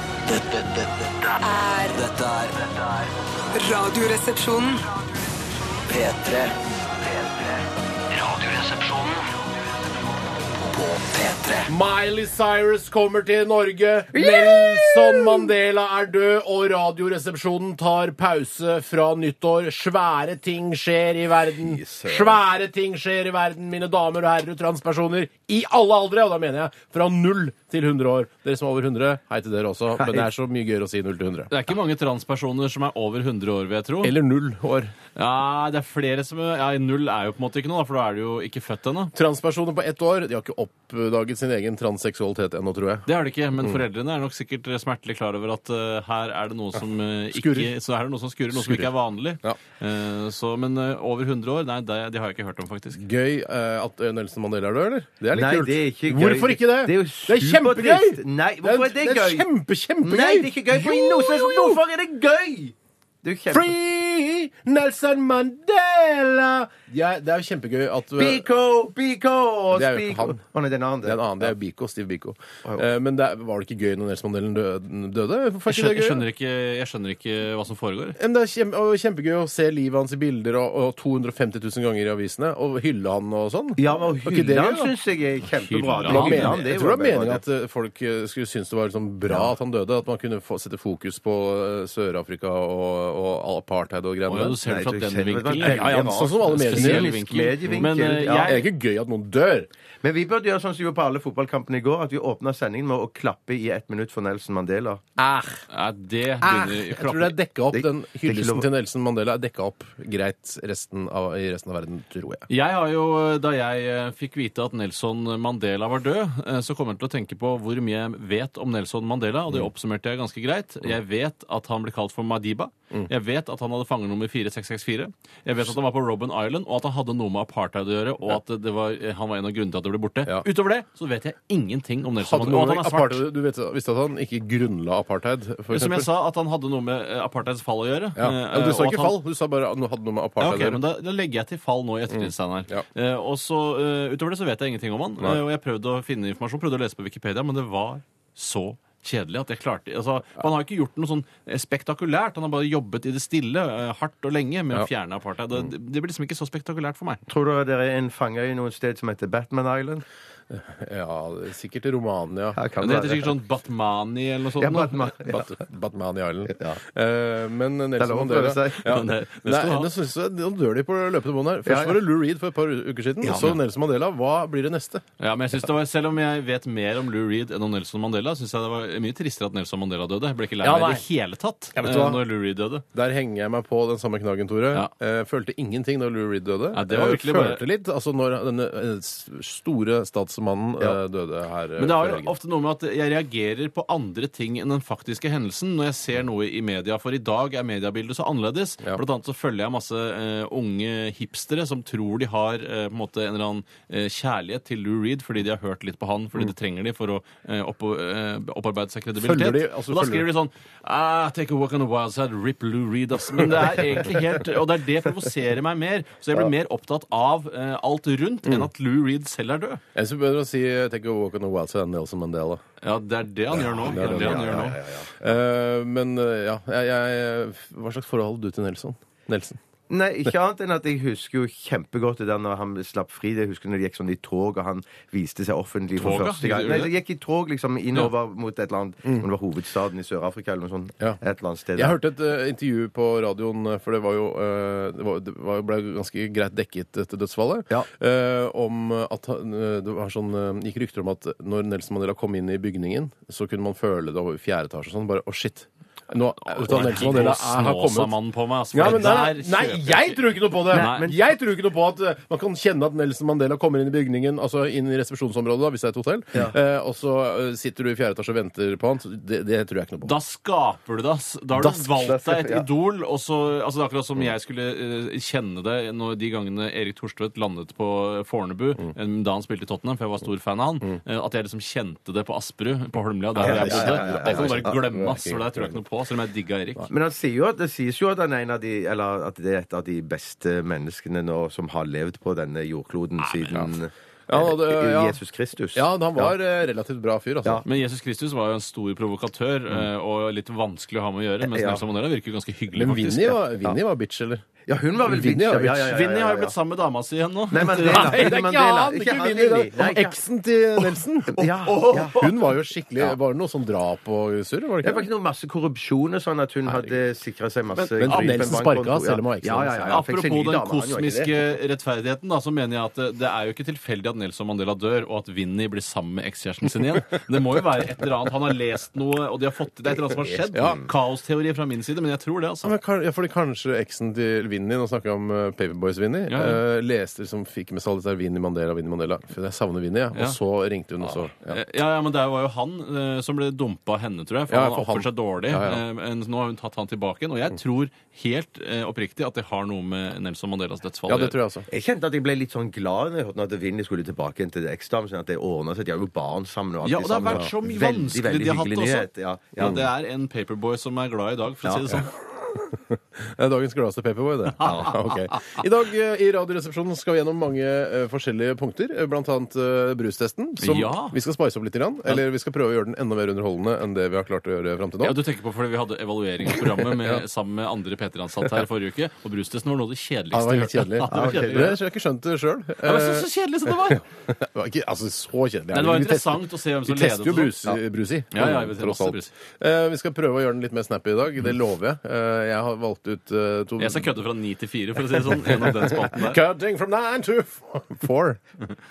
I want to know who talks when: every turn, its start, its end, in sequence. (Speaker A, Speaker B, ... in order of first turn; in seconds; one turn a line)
Speaker A: 0.3-1.3
Speaker B: 1.4-2.0
Speaker A: 1.9-3.1
Speaker B: 3.5-4.8
Speaker A: 5.9-7.6
Speaker A: 8.1-9.3
Speaker A: 10.6-11.7
Speaker C: 11.7-31.5
Speaker D: 14.2-15.1
Speaker D: 21.6-22.4
Speaker D: 30.0-30.3
Speaker E: 31.5-34.1
Speaker C: 34.0-34.9
Speaker E: 35.1-39.1
Speaker C: 39.1-43.8
Speaker E: 43.1-53.0
Speaker C: 47.3-47.7
Speaker C: 48.5-48.9
Speaker C: 53.0-61.8
Speaker D: 55.3-59.5
Speaker D: 60.0-63.7
Speaker C: 63.5-68.4
Speaker D: 68.2-71.5
Speaker C: 69.7-70.4
Speaker C: 71.0-76.2
Speaker E: 75.7-78.2
Speaker C: 78.2-84.9
Speaker D: 83.8-87.4
Speaker E: 85.5-86.6
Speaker C: 86.0-94.6
Speaker D: 89.3-89.5
Speaker E: 94.3-98.7
Speaker D: 94.6-98.6
Speaker C: 95.6-97.1
Speaker C: 98.4-99.7
Speaker D: 100.0-105.0
Speaker C: 105.2-105.6
Speaker E: 105.7-107.3
Speaker C: 106.4-112.5
Speaker D: 107.7-108.7
Speaker E: 112.5-133.2
Speaker C: 132.2-136.1
Speaker E: 135.7-139.2
Speaker C: 138.2-140.8
Speaker E: 140.4-157.2
Speaker C: 142.1-142.8
Speaker D: 157.3-160.1
Speaker C: 160.5-162.6
Speaker D: 162.6-163.3
Speaker E: 162.8-165.1
Speaker D: 164.6-165.5
Speaker C: 165.3-175.0
Speaker D: 166.5-166.8
Speaker D: 168.0-169.1
Speaker E: 168.8-169.9
Speaker D: 171.7-172.0
Speaker D: 173.2-173.5
Speaker E: 175.2-182.8
Speaker C: 180.6-181.0
Speaker C: 181.8-182.2
Speaker C: 182.9-192.3
Speaker E: 186.7-187.6
Speaker E: 191.8-219.8
Speaker C: 209.2-210.2
Speaker C: 213.4-214.0
Speaker C: 219.9-222.6
Speaker E: 222.8-224.8
Speaker C: 223.5-229.6
Speaker D: 223.8-225.3
Speaker D: 229.9-242.0
Speaker E: 236.0-236.9
Speaker C: 241.8-258.2
Speaker E: 256.4-260.2
Speaker C: 258.7-270.1
Speaker D: 260.7-261.2
Speaker E: 260.7-261.1
Speaker E: 270.0-286.9
Speaker D: 271.6-272.7
Speaker C: 283.4-285.8
Speaker D: 283.4-284.8
Speaker D: 286.9-296.4
Speaker E: 293.2-293.6
Speaker C: 294.3-295.2
Speaker C: 295.8-297.6
Speaker E: 297.6-303.4
Speaker D: 301.4-301.8
Speaker C: 302.7-304.5
Speaker D: 304.7-306.6
Speaker C: 305.1-306.0
Speaker E: 305.9-308.3
Speaker D: 307.5-310.2
Speaker C: 307.9-315.1
Speaker D: 310.8-313.1
Speaker E: 311.7-312.1
Speaker D: 314.8-321.4
Speaker E: 317.8-318.6
Speaker C: 318.0-320.1
Speaker E: 319.9-332.7
Speaker C: 330.5-330.8
Speaker C: 332.6-341.6
Speaker E: 336.3-336.6
Speaker E: 341.4-351.4
Speaker C: 344.5-345.8
Speaker C: 351.1-351.7
Speaker D: 351.7-359.8
Speaker E: 356.8-362.1
Speaker D: 361.6-361.9
Speaker C: 361.9-375.2
Speaker E: 364.6-365.3
Speaker D: 364.6-365.0
Speaker E: 370.6-371.2
Speaker E: 375.0-381.8
Speaker C: 376.6-377.2
Speaker C: 380.3-394.2
Speaker D: 381.1-381.8
Speaker E: 382.8-384.0
Speaker E: 385.7-387.6
Speaker E: 388.3-389.3
Speaker E: 393.8-396.4
Speaker C: 395.2-398.4